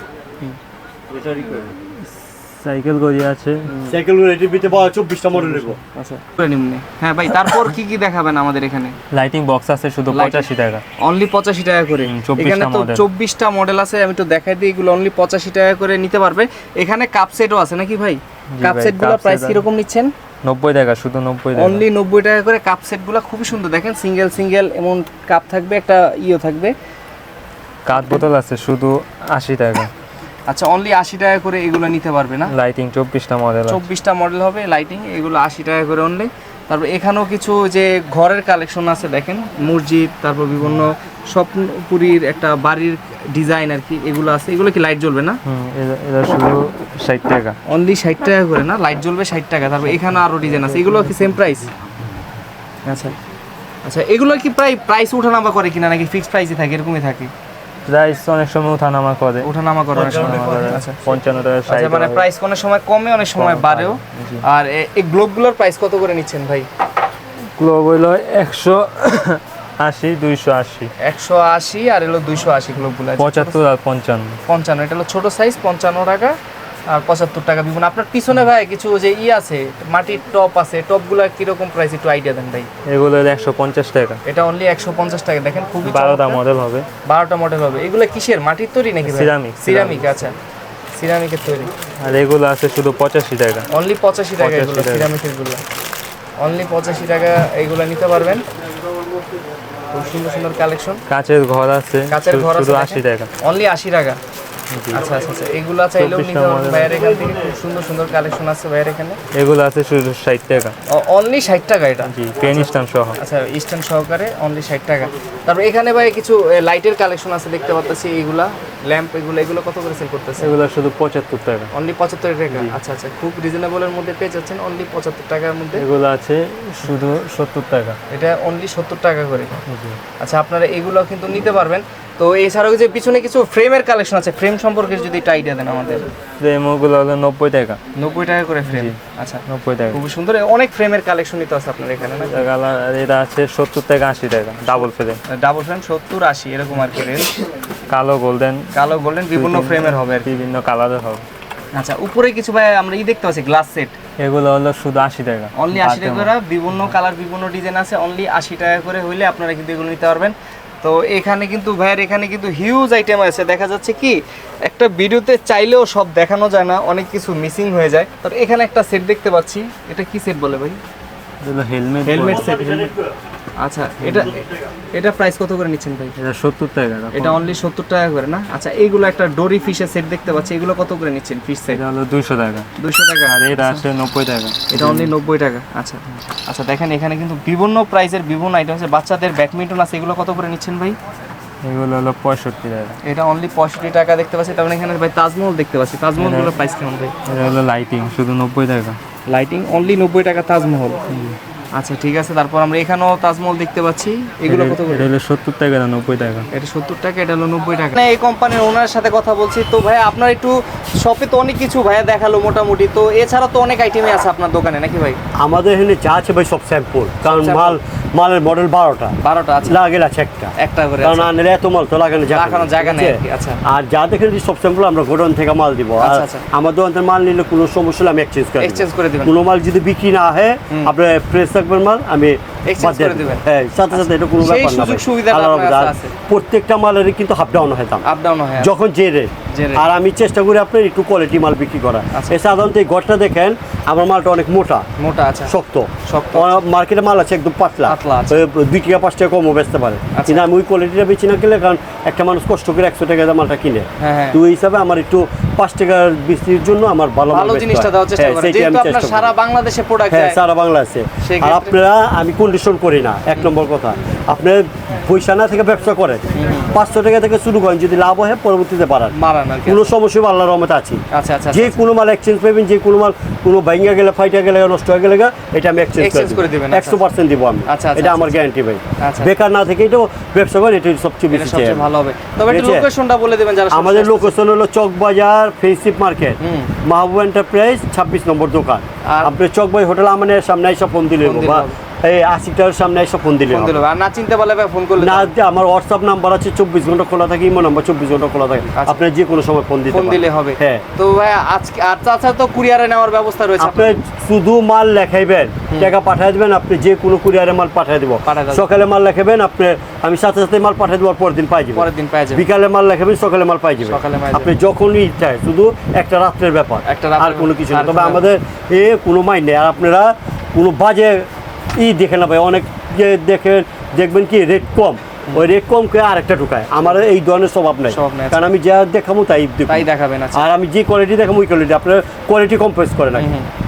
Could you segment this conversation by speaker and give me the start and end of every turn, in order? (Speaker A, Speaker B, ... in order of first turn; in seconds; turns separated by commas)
Speaker A: 1.1-1.8, Speaker B: 2.0-4.0, Speaker A: 3.9-5.8, Speaker C: 5.9-9.0, Speaker B: 9.1-10.8, Speaker C: 10.1-20.1, Speaker B: 12.0-13.0, Speaker B: 18.5-19.6, Speaker B: 20.4-21.9, Speaker C: 21.6-26.7, Speaker B: 27.9-29.9, Speaker C: 30.5-32.5, Speaker B: 32.5-33.8, Speaker C: 33.7-45.4, Speaker B: 40.6-40.9, Speaker B: 45.5-47.6, Speaker C: 47.7-51.7, Speaker B: 50.6-51.1, Speaker C: 52.9-53.2, Speaker C: 53.9-57.3, Speaker B: 57.9-62.2, Speaker C: 59.4-61.0, Speaker A: 60.0-60.8, Speaker C: 61.7-66.7, Speaker B: 63.4-64.4, Speaker B: 67.6-70.9, Speaker C: 71.0-73.6, Speaker B: 73.2-74.4, Speaker C: 74.5-76.4, Speaker C: 76.9-82.7, Speaker B: 82.9-84.2, Speaker C: 84.2-86.4, Speaker B: 85.8-86.9, Speaker C: 87.0-90.3, Speaker B: 89.0-90.2, Speaker C: 91.0-91.7, Speaker B: 92.0-93.7, Speaker C: 93.7-95.6, Speaker B: 94.4-95.1, Speaker C: 96.4-98.4, Speaker C: 99.9-101.0, Speaker B: 101.1-103.3, Speaker C: 102.1-104.2, Speaker B: 104.7-105.0, Speaker C: 104.9-109.2, Speaker B: 106.0-107.1, Speaker A: 107.0-107.3, Speaker B: 109.3-110.8, Speaker C: 110.9-120.5, Speaker B: 112.0-113.2, Speaker B: 120.4-121.7, Speaker C: 121.7-125.8, Speaker B: 125.8-128.0, Speaker C: 128.1-129.5, Speaker B: 129.7-130.0, Speaker C: 130.2-136.1, Speaker B: 136.4-137.8, Speaker C: 137.9-142.5, Speaker B: 138.7-140.0, Speaker B: 142.2-145.2, Speaker C: 144.7-147.5, Speaker B: 147.9-148.7, Speaker C: 148.7-150.3, Speaker B: 149.3-151.2, Speaker C: 151.7-154.0, Speaker B: 154.2-156.9, Speaker C: 155.6-170.8, Speaker B: 171.4-172.5, Speaker C: 172.1-172.9, Speaker A: 172.2-173.2, Speaker C: 173.6-174.4, Speaker A: 174.1-174.7, Speaker C: 174.9-176.2, Speaker B: 176.2-177.4, Speaker C: 177.1-181.8, Speaker B: 181.7-182.7, Speaker C: 182.8-183.8, Speaker B: 183.3-185.1, Speaker C: 184.7-191.0, Speaker B: 191.6-193.0, Speaker C: 193.0-197.1, Speaker B: 196.2-196.5, Speaker B: 197.3-199.0, Speaker C: 199.3-201.0, Speaker B: 201.1-201.4, Speaker C: 201.8-205.1, Speaker B: 204.5-206.5, Speaker C: 206.5-215.2, Speaker A: 215.4-219.2, Speaker C: 217.2-217.8, Speaker C: 219.2-219.8, Speaker A: 219.7-238.0, Speaker C: 220.6-221.3, Speaker C: 222.3-223.6, Speaker C: 226.0-226.5, Speaker C: 228.6-229.4, Speaker C: 232.7-236.1, Speaker C: 238.0-238.7, Speaker A: 238.6-244.9, Speaker C: 239.5-239.8, Speaker C: 242.1-242.4, Speaker C: 245.0-245.5, Speaker A: 245.5-259.3, Speaker C: 246.1-246.6, Speaker C: 247.9-248.4, Speaker C: 250.1-250.4, Speaker C: 254.0-254.4, Speaker C: 257.3-260.4, Speaker A: 260.1-269.1, Speaker C: 261.2-261.8, Speaker C: 266.4-266.8, Speaker C: 269.1-269.9, Speaker A: 269.6-271.0, Speaker C: 271.1-271.8, Speaker A: 271.5-281.9, Speaker C: 276.0-277.0, Speaker C: 277.7-278.4, Speaker C: 279.0-279.3, Speaker C: 281.3-284.3, Speaker A: 282.4-282.9, Speaker A: 283.7-293.8, Speaker C: 286.4-286.7, Speaker C: 289.1-289.4, Speaker C: 291.2-291.8, Speaker C: 293.5-295.3, Speaker A: 295.0-300.9, Speaker C: 298.8-299.0, Speaker C: 299.9-304.0, Speaker A: 303.6-333.3, Speaker C: 308.2-308.7, Speaker C: 311.8-312.4, Speaker C: 313.9-314.5, Speaker C: 316.9-318.3, Speaker C: 327.9-328.5, Speaker C: 329.7-330.4, Speaker C: 333.2-333.5